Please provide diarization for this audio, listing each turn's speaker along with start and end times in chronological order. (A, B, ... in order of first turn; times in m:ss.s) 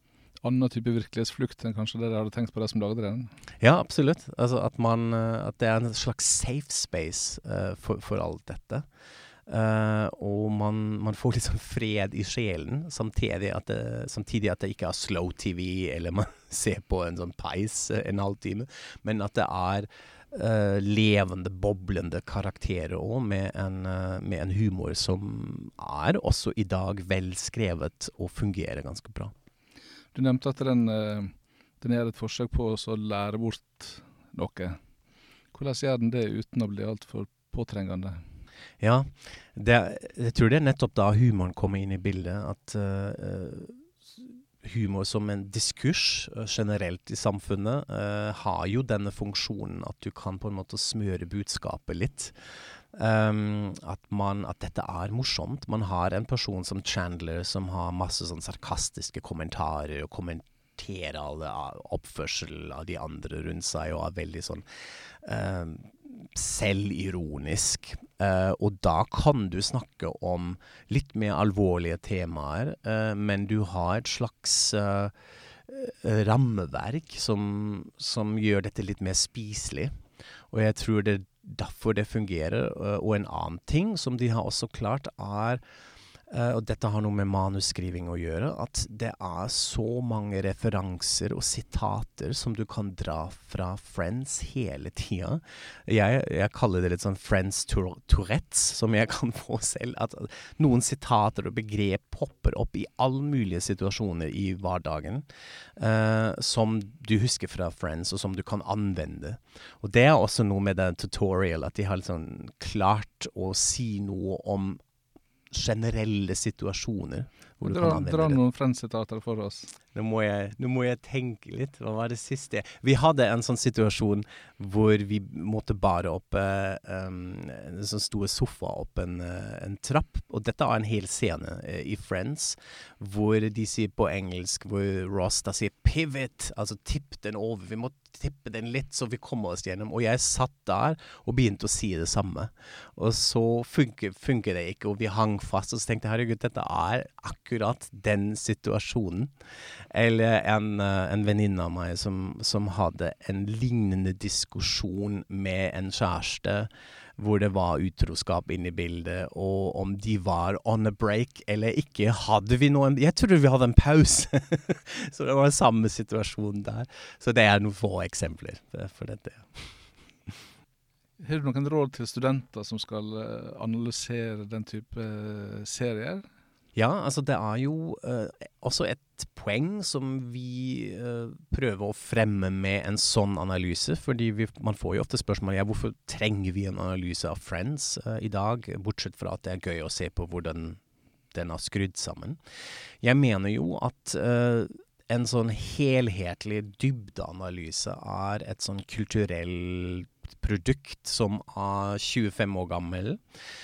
0:00.4-0:03.3 A
0:03.6-0:08.9 B
0:09.5-0:29.3 B
0:30.1-0:34.8 A
0:35.5-0:38.2 A
0:38.8-0:52.3 B
0:52.9-1:04.6 B
1:05.2-1:15.1 B
1:15.7-1:19.9 B
1:20.5-1:25.6 B
1:26.3-1:45.2 B
1:45.8-1:54.8 B
1:55.5-1:58.4 B
1:57.6-1:59.7 A
1:59.9-2:29.3 B
2:29.9-2:49.7 B
2:51.2-2:56.2 A
2:56.8-3:10.8 B
3:11.3-3:12.4 B
3:13.0-3:23.2 B